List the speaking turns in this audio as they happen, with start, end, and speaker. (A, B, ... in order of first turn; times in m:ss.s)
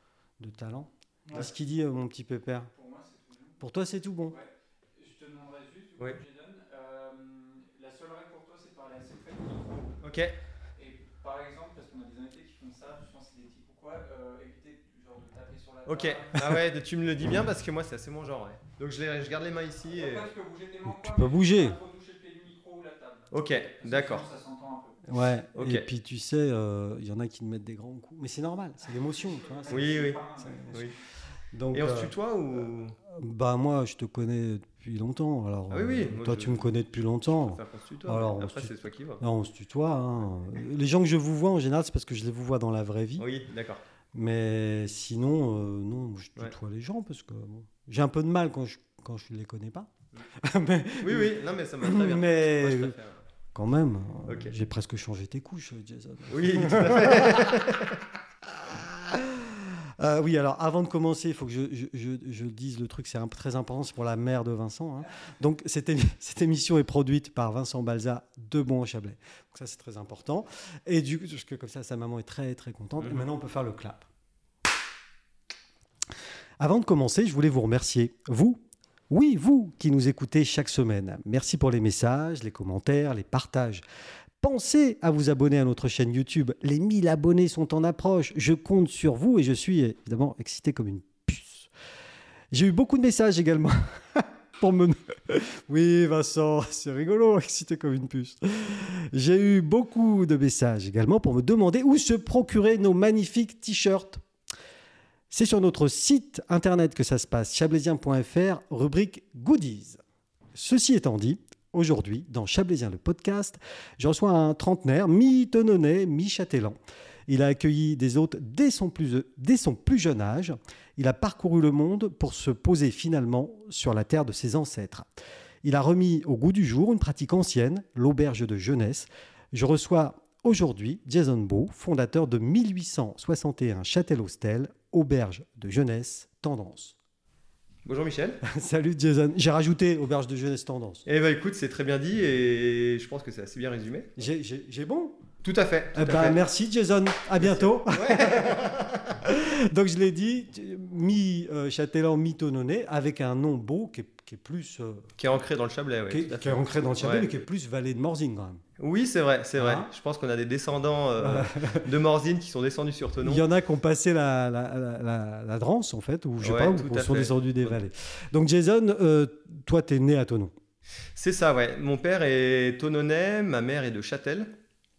0:00.4-0:02.7 A
0:02.7-0:03.6 B
0:03.6-0:04.4 A
0:04.3-0:10.0 B
0:10.0-0:10.3 C
0:10.8-0:16.5 B
0:15.8-0:20.3 C
0:19.8-0:25.0 B
0:20.8-0:21.8 A
0:23.3-0:24.3 C
0:25.0-0:29.9 A
0:25.5-0:25.9 C
0:28.9-0:30.9 B
0:29.7-0:30.9 C
0:30.4-0:30.8 A
0:31.5-0:32.1 A
0:31.7-0:33.0 C
0:33.1-0:43.3 A
0:35.7-0:39.2 C
0:43.2-0:43.8 C
0:44.1-0:52.9 A
0:51.0-0:53.2 C
0:53.5-0:57.6 A
0:54.3-0:54.5 C
0:56.3-0:58.0 C
0:58.4-1:14.1 A
1:16.6-1:23.8 A
1:24.4-1:31.7 A
1:32.5-1:44.2 A
1:45.3-1:50.0 A
1:50.5-2:05.1 A
2:05.6-2:17.0 A
2:17.8-2:18.4 C
2:18.4-2:21.0 A
2:21.0-2:24.2 C
2:24.2-2:25.2 A
2:25.4-2:26.4 C
2:25.9-2:35.1 A
2:27.4-2:29.1 C
2:35.2-2:37.3 C
2:36.1-2:38.6 A
2:38.8-2:43.4 C
2:39.6-2:39.9 A
2:41.2-2:41.8 A
2:43.2-2:50.5 A
2:46.4-2:47.7 C
2:51.1-2:54.5 C